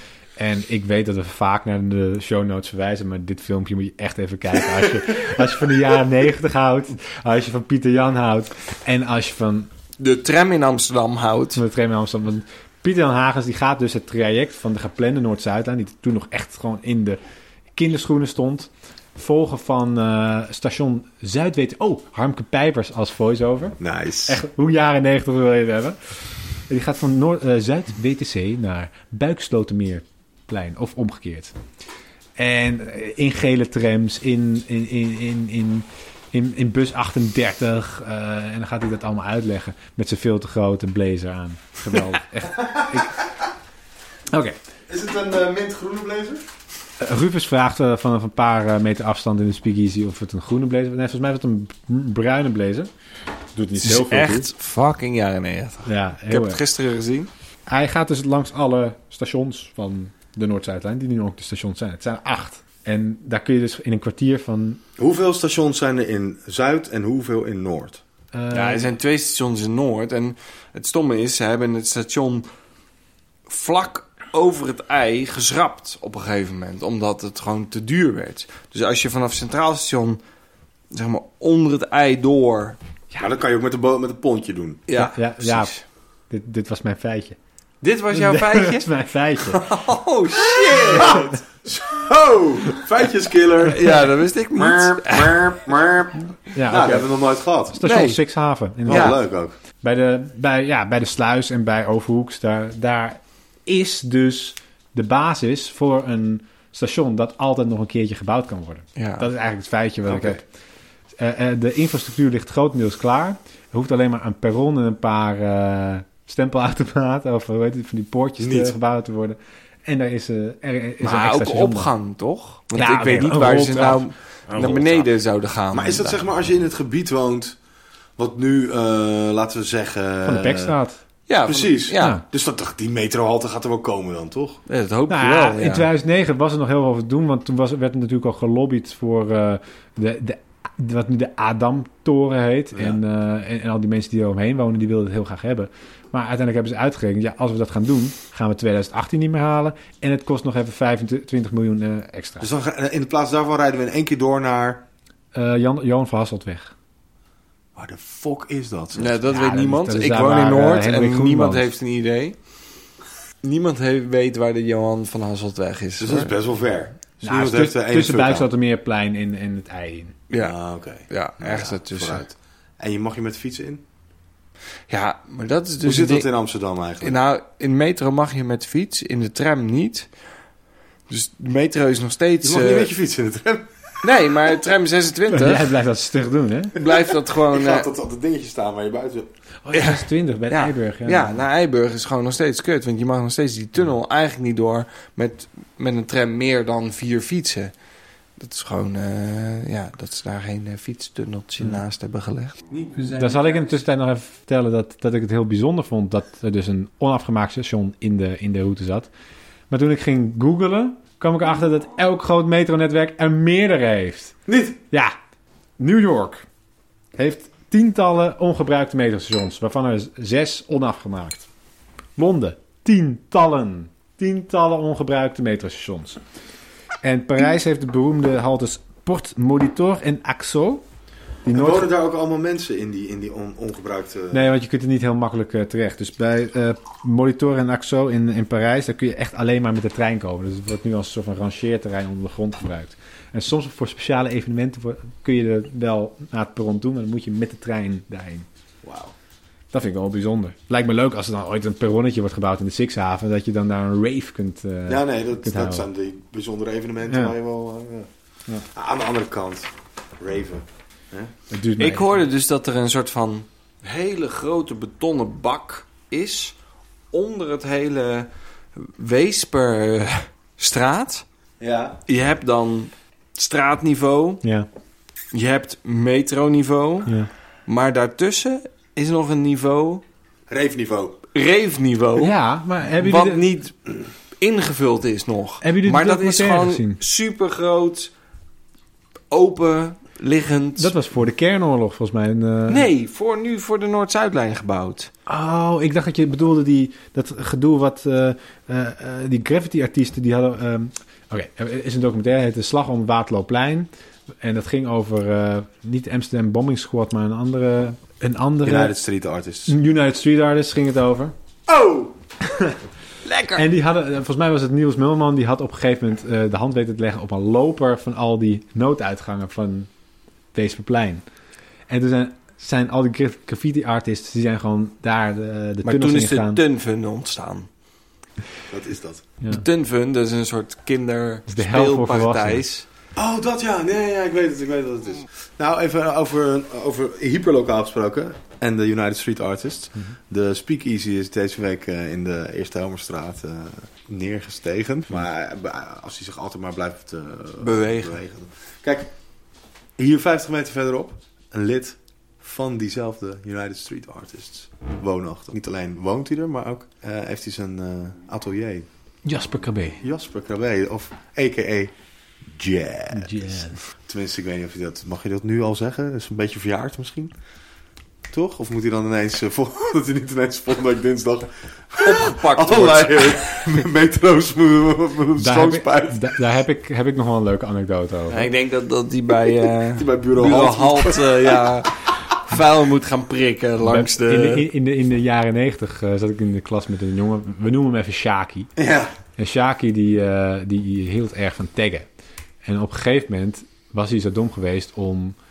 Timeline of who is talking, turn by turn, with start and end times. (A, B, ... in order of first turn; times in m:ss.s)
0:00.4-0:09.7 A
0:10.0-0:11.6 B
0:11.6-0:17.2 A
0:17.8-0:26.0 A
0:23.8-0:24.4 C
0:26.7-0:31.5 A
0:32.4-0:43.2 A
0:42.6-0:43.1 C
0:44.3-0:44.6 A
0:44.9-0:46.4 C
0:47.0-0:52.9 A
0:53.6-0:54.5 A
0:53.8-0:57.3 B
0:55.9-0:56.6 A
0:57.7-1:04.8 A
1:05.0-1:08.0 C
1:08.3-1:08.9 A
1:08.5-1:12.4 B
1:13.5-1:20.2 B
1:20.9-1:22.8 B
1:23.2-1:24.8 C
1:24.9-1:25.8 B
1:24.9-1:25.7 A
1:26.3-1:27.4 A
1:27.8-1:28.9 B
1:28.1-1:29.6 A
1:29.4-1:31.2 B
1:30.7-1:37.8 C
1:31.0-1:31.3 A
1:33.6-1:35.6 B
1:36.5-1:37.1 A
1:37.7-1:39.2 A
1:37.8-1:38.2 B
1:38.9-1:39.6 C
1:38.9-1:39.2 B
1:39.8-1:50.4 A
1:49.0-1:49.3 B
1:50.1-1:50.4 C
1:51.2-2:01.9 A
1:58.4-1:58.8 C
2:01.0-2:06.2 B
2:02.8-2:04.1 A
2:04.5-2:05.0 C
2:05.7-2:07.6 C
2:08.2-2:10.8 C
2:10.2-2:11.0 A
2:11.3-2:12.2 B
2:11.4-2:14.6 C
2:14.7-2:15.9 B
2:15.1-2:32.5 A
2:32.4-2:34.8 C
2:35.3-2:36.7 A
2:37.8-2:39.2 C
2:38.9-2:42.4 B
2:39.3-2:41.7 A
2:43.4-2:46.3 B
2:46.0-2:48.5 C
2:47.2-2:50.2 A
2:50.3-2:50.6 B
2:50.4-2:53.8 C
2:51.1-2:52.2 B
2:54.9-2:56.3 B
2:55.8-2:57.2 C
2:57.0-3:00.1 B
3:01.1-3:02.9 B
3:02.4-3:04.1 C
3:04.0-3:05.7 B
3:05.3-3:06.8 A
3:06.8-3:07.9 B
3:06.8-3:09.3 C
3:09.6-3:11.4 A
3:09.7-3:17.7 B
3:18.4-3:23.8 B
3:23.0-3:29.1 A
3:29.7-3:34.4 A
3:34.5-3:34.8 C
3:35.8-3:36.4 A
3:37.2-3:41.5 A
3:42.2-3:46.2 A
3:47.0-3:50.8 A
3:51.4-3:51.9 A
3:51.5-3:54.5 C
3:54.3-4:08.5 A
4:08.8-4:09.1 C
4:09.7-4:15.9 A
4:14.9-4:18.1 C
4:17.1-4:17.4 A
4:18.7-4:21.3 C
4:21.5-4:22.3 A
4:21.8-4:26.6 B
4:27.1-4:31.2 B
4:31.6-4:32.0 C
4:32.1-4:34.4 B
4:35.3-4:37.1 B
4:37.7-4:40.0 B
4:40.5-4:41.2 C
4:41.3-4:42.3 B
4:42.2-4:43.4 A
4:43.0-4:48.1 B
4:45.6-4:47.0 A
4:49.3-4:50.9 B
4:50.8-4:52.9 A
4:52.7-4:55.1 B
4:55.3-5:03.9 A
5:04.4-5:08.9 A
5:08.6-5:09.7 C
5:09.7-5:11.3 A
5:11.7-5:12.1 C
5:12.5-5:12.8 A
5:13.2-5:13.6 B
5:13.5-5:19.9 A
5:20.5-5:21.2 A
5:21.9-5:26.6 A
5:25.8-5:27.7 B
5:28.7-5:29.2 C
5:29.5-5:32.9 B
5:31.5-5:32.6 A
5:33.2-5:49.1 C
5:47.6-5:48.2 B
5:50.0-5:58.9 C
5:59.2-6:00.0 A
6:00.0-6:01.9 C
6:02.5-6:07.3 C
6:03.1-6:03.8 A
6:08.3-6:16.4 C
6:12.0-6:13.7 B
6:15.4-6:18.5 A
6:18.3-6:24.6 B
6:19.9-6:21.8 C
6:23.8-6:28.7 A
6:28.8-6:29.1 C
6:29.4-6:32.1 A
6:32.6-6:35.4 A